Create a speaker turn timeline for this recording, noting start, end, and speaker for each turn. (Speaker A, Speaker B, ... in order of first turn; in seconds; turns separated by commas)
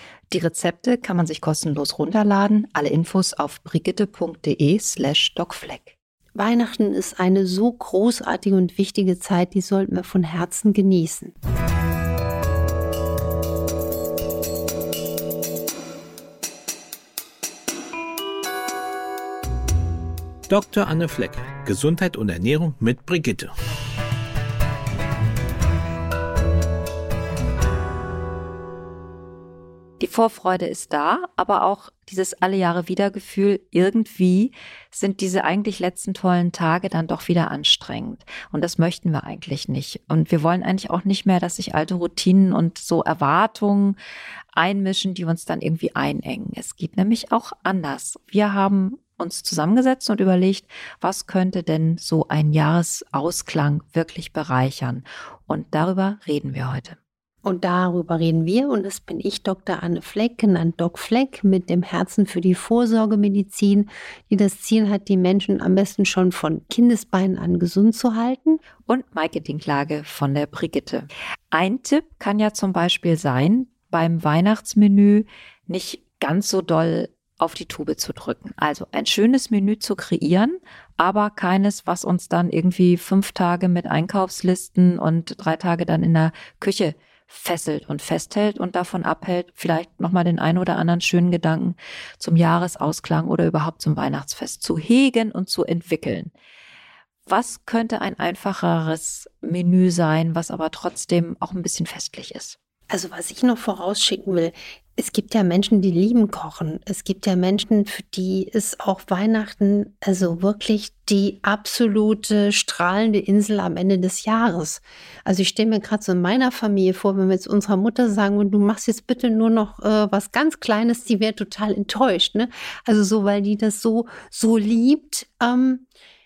Speaker A: 0.3-6.0, Speaker B: 6.3-11.3, Speaker C: 20.5-23.5, Speaker A: 30.0-44.0, Speaker A: 44.5-57.0, Speaker B: 57.4-68.6, Speaker A: 68.9-96.3, Speaker A: 97.3-102.6, Speaker B: 102.9-125.8